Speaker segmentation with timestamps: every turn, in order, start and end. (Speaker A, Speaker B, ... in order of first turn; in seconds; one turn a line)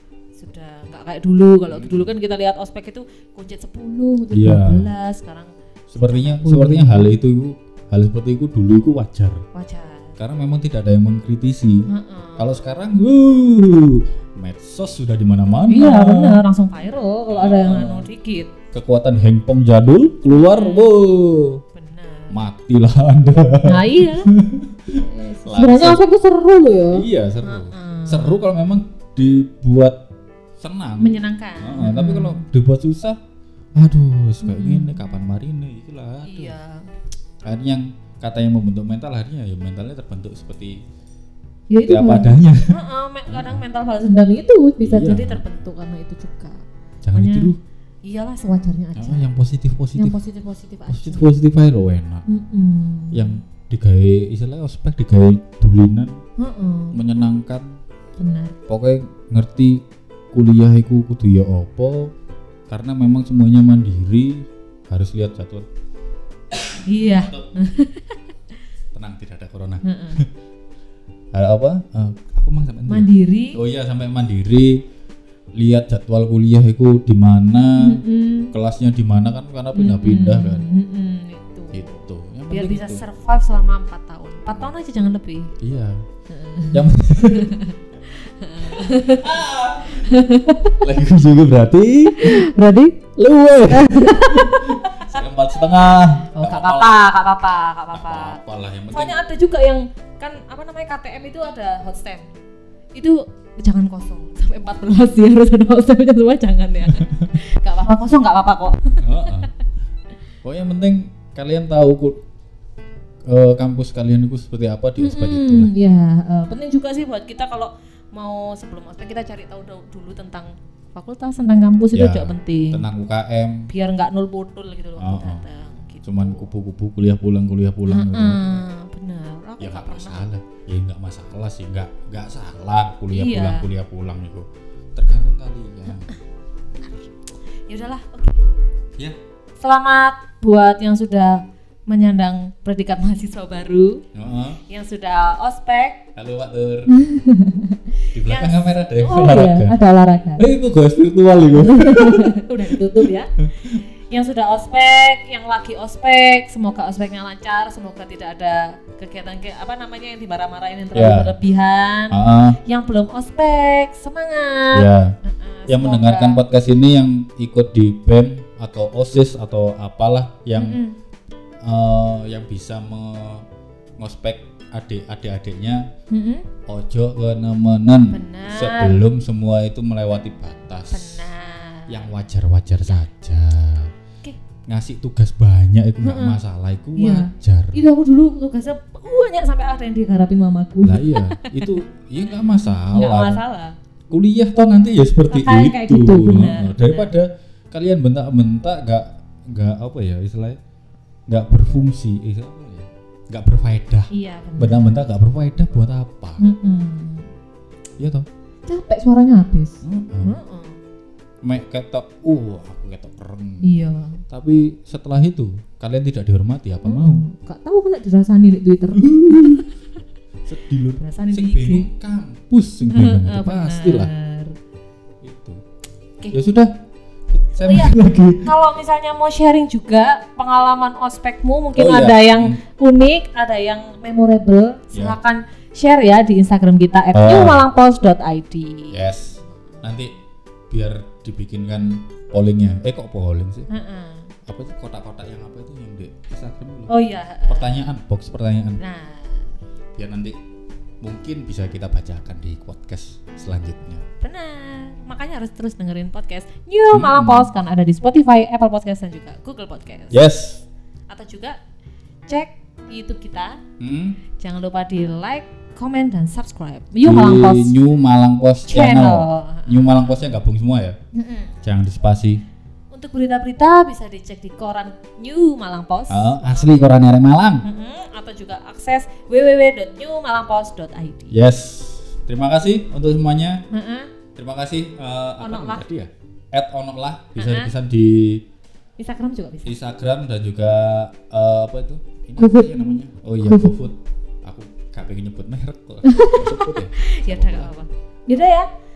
Speaker A: 0.4-7.1
Speaker B: 1.7-2.1
Speaker B: 4.3-4.9
Speaker B: 5.9-9.4
Speaker A: 9.5-10.2
Speaker B: 10.2-11.9
Speaker A: 11.9-12.6
Speaker B: 12.4-16.4
Speaker A: 15.7-18.5
Speaker B: 17.3-18.1
Speaker B: 18.7-21.6
Speaker A: 20.3-20.9
Speaker A: 21.7-22.4
Speaker B: 22.3-26.0
Speaker A: 23.6-24.3
Speaker A: 24.9-28.5
Speaker B: 26.9-30.0
Speaker B: 30.6-33.2
Speaker A: 31.0-32.4
Speaker B: 33.8-36.5
Speaker A: 34.4-35.0
Speaker A: 36.2-36.9
Speaker B: 37.4-40.8
Speaker A: 41.7-46.6
Speaker B: 41.8-42.7
Speaker B: 43.3-43.6
Speaker B: 44.8-45.4
Speaker B: 47.0-47.6
Speaker A: 47.1-47.5
Speaker A: 48.0-49.2
Speaker B: 49.0-50.2
Speaker A: 50.0-51.3
Speaker B: 50.9-52.2
Speaker A: 52.3-53.4
Speaker B: 53.1-56.2
Speaker A: 56.4-57.0
Speaker B: 56.9-57.8
Speaker A: 58.2-58.5
Speaker B: 58.7-62.1
Speaker B: 62.7-65.7
Speaker B: 66.5-67.5
Speaker A: 66.8-68.2
Speaker B: 68.9-70.3
Speaker A: 69.8-70.2
Speaker B: 71.3-74.8
Speaker A: 72.9-73.6
Speaker B: 75.6-80.6
Speaker A: 77.7-78.5
Speaker A: 79.7-82.0
Speaker B: 81.7-83.0
Speaker A: 82.5-85.5
Speaker B: 85.6-86.0
Speaker A: 86.3-90.8
Speaker B: 86.7-87.5
Speaker B: 88.6-90.1
Speaker B: 90.8-92.5
Speaker A: 92.1-93.1
Speaker B: 93.2-97.0
Speaker A: 93.7-95.2
Speaker A: 96.3-102.3
Speaker B: 97.9-99.2
Speaker A: 103.0-109.5
Speaker B: 106.9-107.3
Speaker B: 109.0-109.5
Speaker B: 110.4-112.2
Speaker B: 113.3-115.7
Speaker A: 115.0-122.8
Speaker B: 121.9-123.7
Speaker A: 123.7-126.5
Speaker B: 125.0-125.4
Speaker B: 126.0-128.6
Speaker A: 127.9-130.3
Speaker B: 129.6-136.1
Speaker A: 133.1-133.7
Speaker A: 135.9-136.2
Speaker A: 136.8-137.1
Speaker A: 137.7-138.4
Speaker A: 139.6-144.0
Speaker B: 144.1-144.6
Speaker A: 144.7-146.0
Speaker B: 146.2-146.9
Speaker A: 146.9-150.4
Speaker B: 148.1-149.8
Speaker B: 150.4-153.8
Speaker A: 151.6-166.4
Speaker B: 160.9-161.3
Speaker B: 162.1-162.6
Speaker B: 164.7-165.1
Speaker B: 165.7-170.8
Speaker A: 170.5-170.9
Speaker B: 171.6-173.4
Speaker B: 174.0-175.9
Speaker A: 176.1-176.5
Speaker B: 176.7-181.2
Speaker A: 178.1-179.0
Speaker A: 180.9-182.1
Speaker B: 181.9-183.9
Speaker B: 184.7-187.8
Speaker A: 186.0-186.4
Speaker A: 187.0-191.8
Speaker B: 190.8-193.4
Speaker A: 192.9-193.8
Speaker B: 194.1-200.6
Speaker A: 195.3-197.1
Speaker B: 201.3-206.4
Speaker A: 204.1-205.0
Speaker A: 206.4-207.3
Speaker B: 208.0-208.3
Speaker A: 208.7-210.8
Speaker B: 209.8-210.4
Speaker B: 211.4-213.8
Speaker A: 213.6-214.2
Speaker B: 214.3-217.2
Speaker A: 216.8-219.7
Speaker B: 218.9-219.7
Speaker B: 220.5-224.1
Speaker A: 221.0-221.9
Speaker A: 222.9-224.5
Speaker B: 225.2-225.6
Speaker B: 226.3-226.7
Speaker B: 227.3-228.5
Speaker A: 227.6-239.9
Speaker B: 231.8-232.6
Speaker B: 234.9-235.2
Speaker B: 237.1-237.7
Speaker B: 238.9-240.1
Speaker B: 240.7-243.7
Speaker A: 243.7-244.3
Speaker B: 244.4-246.9
Speaker A: 246.9-247.8
Speaker B: 247.5-248.8
Speaker A: 248.8-249.6
Speaker B: 249.9-250.4
Speaker B: 251.0-254.0
Speaker A: 254.2-260.2
Speaker B: 256.9-257.5
Speaker B: 260.1-260.6
Speaker A: 261.1-261.6
Speaker A: 262.3-263.6
Speaker B: 263.8-264.2
Speaker A: 264.4-267.7
Speaker B: 267.0-271.0
Speaker A: 268.7-270.4
Speaker A: 271.1-271.5
Speaker B: 271.6-272.4
Speaker A: 272.9-276.8
Speaker B: 276.1-277.6
Speaker A: 277.6-281.4
Speaker B: 281.3-283.6
Speaker A: 283.7-284.1
Speaker B: 284.4-288.4
Speaker A: 285.4-285.8
Speaker A: 287.4-287.7
Speaker A: 289.0-289.7
Speaker B: 289.6-297.7
Speaker A: 292.4-292.7
Speaker A: 293.4-293.7
Speaker A: 296.0-298.7